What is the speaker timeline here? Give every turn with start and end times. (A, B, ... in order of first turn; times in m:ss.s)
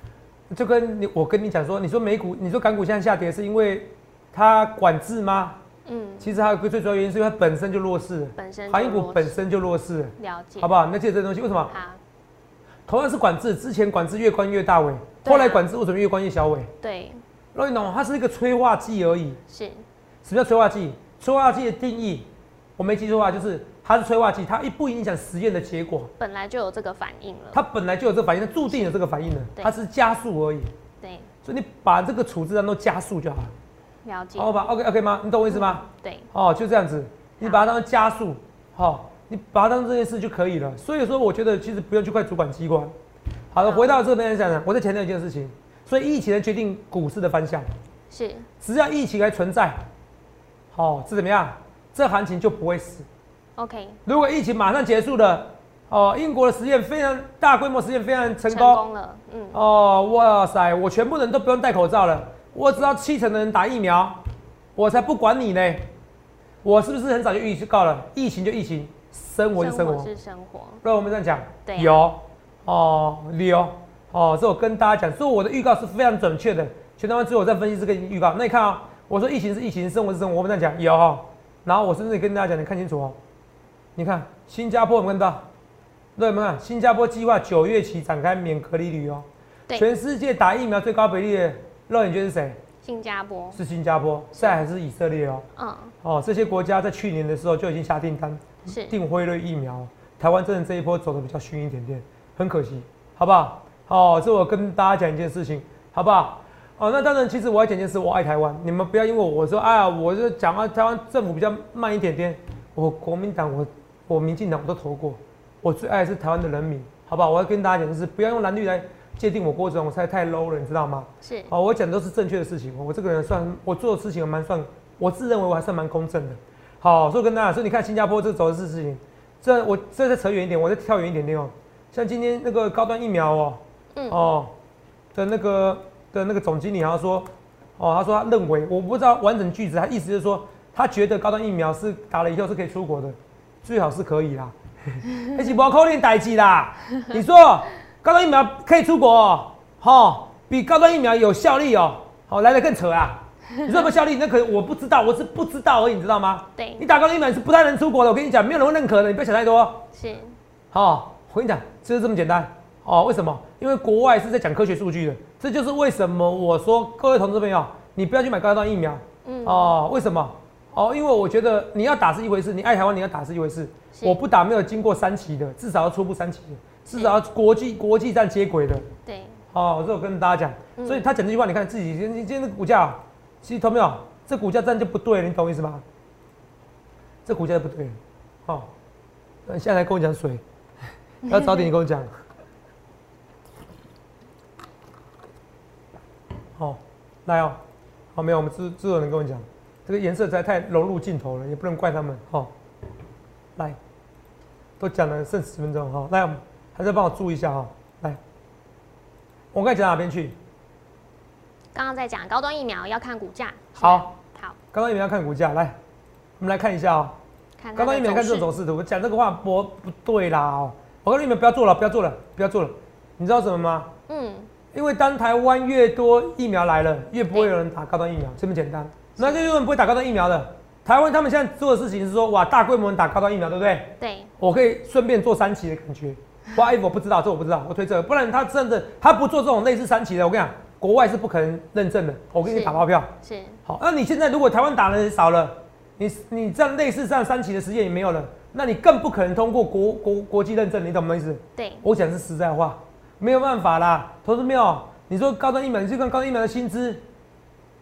0:00.5-0:05.6 A
0:05.8-0:06.4 B
0:06.2-0:11.7 A
0:08.4-0:09.4 B
0:10.2-0:10.7 B
0:11.7-0:12.0 B
0:12.9-0:16.7 A
0:15.2-0:15.6 B
0:16.8-0:17.2 B
0:17.5-0:19.4 A
0:19.5-0:19.8 B
0:20.2-0:26.1 A
0:26.2-0:27.6 B
0:27.5-0:30.7 A
0:28.7-0:28.9 B
0:31.0-0:31.3 B
0:31.4-0:33.5 A
0:34.0-0:34.5 B
0:34.4-0:42.9 A
0:35.5-0:36.3 B
0:37.4-0:37.7 B
0:43.5-0:47.7 A
0:43.6-0:44.0 B
0:48.1-0:48.5 B
0:48.6-0:49.8 A
0:50.7-0:53.0 A
0:53.6-0:54.0 B
0:54.0-0:58.8 A
0:58.5-0:59.6 B
0:59.5-1:04.2 A
1:04.8-1:05.9 A
1:06.6-1:10.1 A
1:09.6-1:10.8 B
1:10.8-1:23.2 A
1:11.6-1:12.0 B
1:24.0-1:25.4 A
1:26.2-1:32.6 A
1:32.8-1:33.6 B
1:33.5-1:35.4 A
1:34.4-1:34.6 B
1:35.6-1:35.9 B
1:36.0-2:14.5 A
1:38.7-1:38.9 B
2:01.2-2:01.5 B
2:13.9-2:14.3 B
2:15.1-2:39.8 A
2:36.6-2:36.8 B
2:39.9-2:40.3 B
2:40.7-2:58.9 A
2:49.2-2:49.8 B
2:53.9-2:54.2 B
2:59.0-2:59.4 B
2:59.5-3:05.8 A
3:00.8-3:01.0 B
3:07.2-3:08.7 A
3:09.4-3:10.4 A
3:11.2-3:12.1 A
3:16.6-3:17.6 A
3:18.1-3:22.5 A
3:24.8-3:28.2 A
3:29.5-3:30.4 A
3:31.7-3:34.6 B
3:33.8-3:34.1 A
3:34.7-3:35.8 A
3:36.4-3:37.2 A
3:37.6-3:38.5 B
3:37.8-3:43.9 A
3:44.1-3:44.5 B
3:44.7-4:03.1 A
3:49.2-3:49.4 B
3:54.0-3:54.3 B
4:02.4-4:03.6 B
4:03.6-4:17.0 A
4:11.6-4:11.8 B